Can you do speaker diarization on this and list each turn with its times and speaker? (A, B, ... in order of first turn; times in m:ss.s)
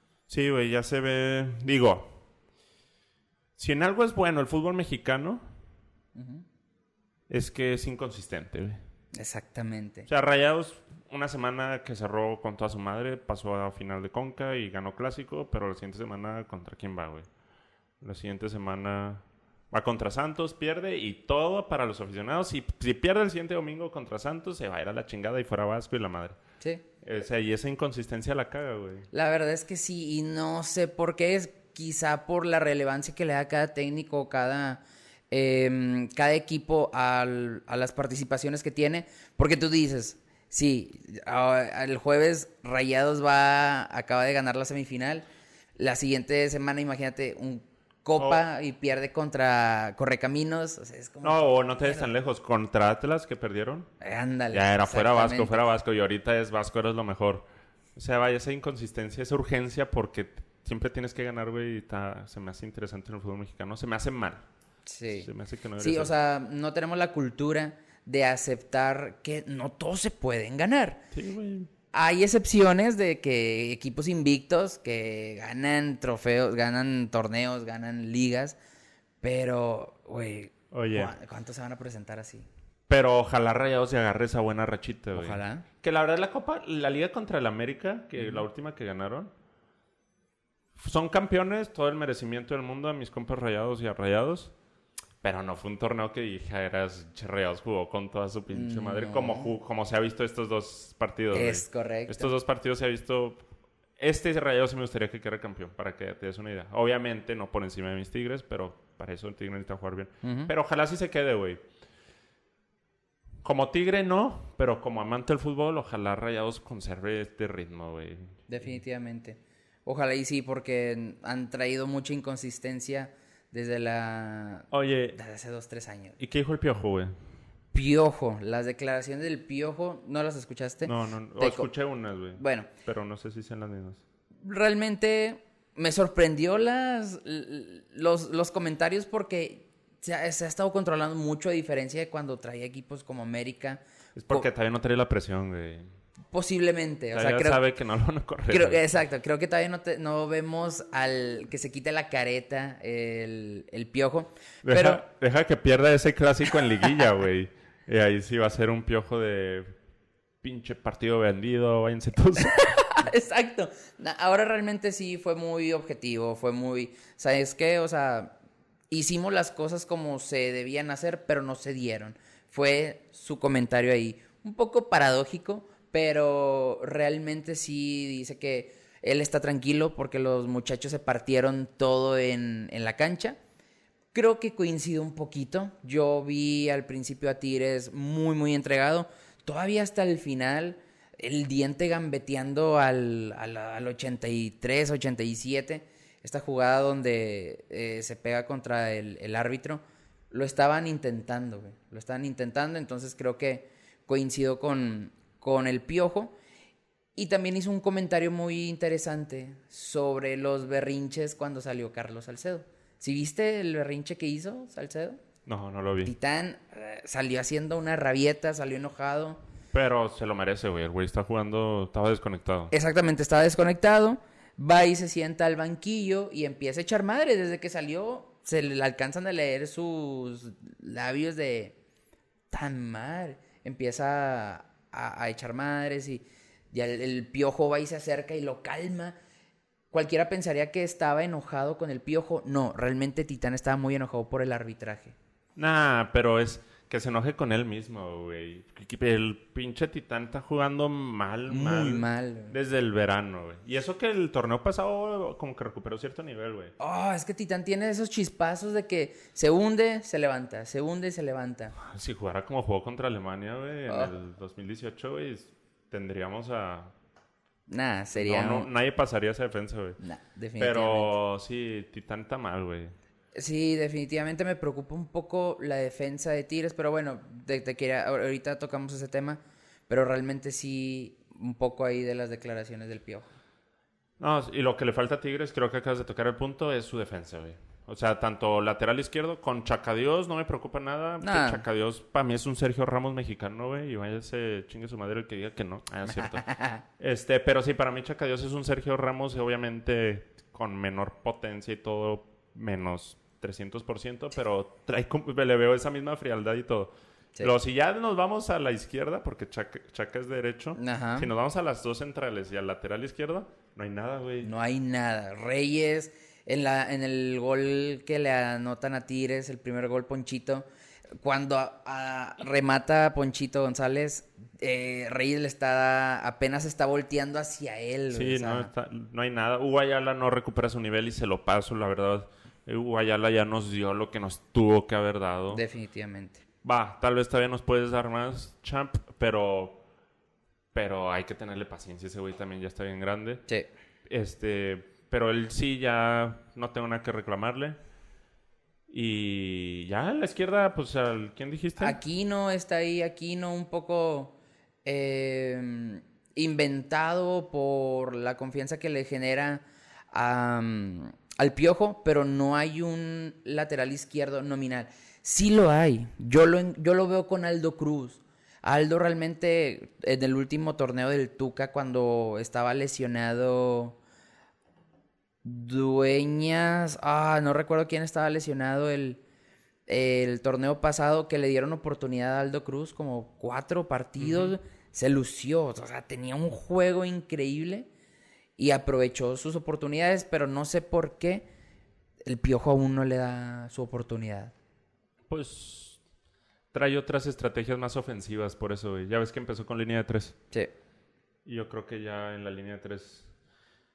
0:00.3-0:02.2 A
0:03.6-0:05.4 A
0:06.1-0:06.4 B
0:07.3-0:08.8 A
0:09.1-0:10.1 B
0:10.1-0:17.2 A
0:18.0-0:26.4 A
0:27.0-0:29.1 A
0:29.1-0:52.1 B
0:48.2-0:48.4 A
0:51.2-0:53.9 A
0:54.0-0:55.7 B
0:54.5-0:57.4 A
0:58.0-1:04.4 A
1:04.8-1:11.0 B
1:05.1-1:06.1 A
1:11.1-1:11.7 A
1:11.9-1:18.6 B
1:19.2-1:22.5 B
1:20.7-1:21.1 A
1:22.9-1:29.3 A
1:25.1-1:25.7 B
1:28.2-1:28.4 B
1:30.8-1:34.5 A
1:35.2-1:43.4 A
1:38.5-1:39.5 B
1:41.3-1:42.3 B
1:44.0-1:51.6 A
1:50.2-1:50.5 B
1:53.4-1:58.4 A
1:58.5-2:06.2 B
2:04.7-2:05.2 A
2:06.2-2:07.1 A
2:07.7-2:11.7 B
2:10.8-2:14.0 A
2:12.4-2:12.7 B
2:14.4-2:24.5 B
2:24.2-2:25.9 A
2:26.3-2:27.6 B
2:27.1-2:28.8 A
2:28.5-2:35.0 B
2:34.6-2:39.7 A
2:40.4-2:43.0 A
2:42.4-2:48.3 B
2:48.9-3:03.4 B
3:04.1-3:26.3 B
3:27.2-3:35.2 B
3:35.4-3:36.1 A
3:36.0-3:39.4 B
3:39.7-3:42.7 A
3:42.7-3:51.8 B
3:52.5-3:59.2 B
3:59.9-4:05.1 B
4:05.6-4:16.7 A
4:11.5-4:12.5 B
4:16.8-4:21.8 B
4:21.8-4:26.9 A
4:23.9-4:24.1 B
4:27.7-4:28.7 B
4:28.1-4:30.0 A
4:30.0-4:31.1 B
4:30.6-4:32.9 A
4:33.3-4:43.3 B
4:44.2-4:56.4 A
4:51.2-4:51.6 B
4:56.1-4:56.8 B
4:57.0-5:14.5 A
5:10.8-5:11.3 B
5:14.4-5:20.6 B
5:21.2-5:28.7 B
5:28.1-5:35.6 A
5:35.5-5:36.4 B
5:36.6-5:39.8 A
5:40.7-5:43.4 A
5:44.1-5:47.8 A
5:48.9-5:52.0 A
5:51.8-6:14.0 B
6:15.4-6:19.2 B
6:19.9-6:27.9 B
6:24.2-6:24.6 A
6:28.6-6:31.5 B
6:32.2-6:34.5 B
6:35.3-6:36.0 A
6:36.7-6:40.4 A
6:41.4-6:43.3 A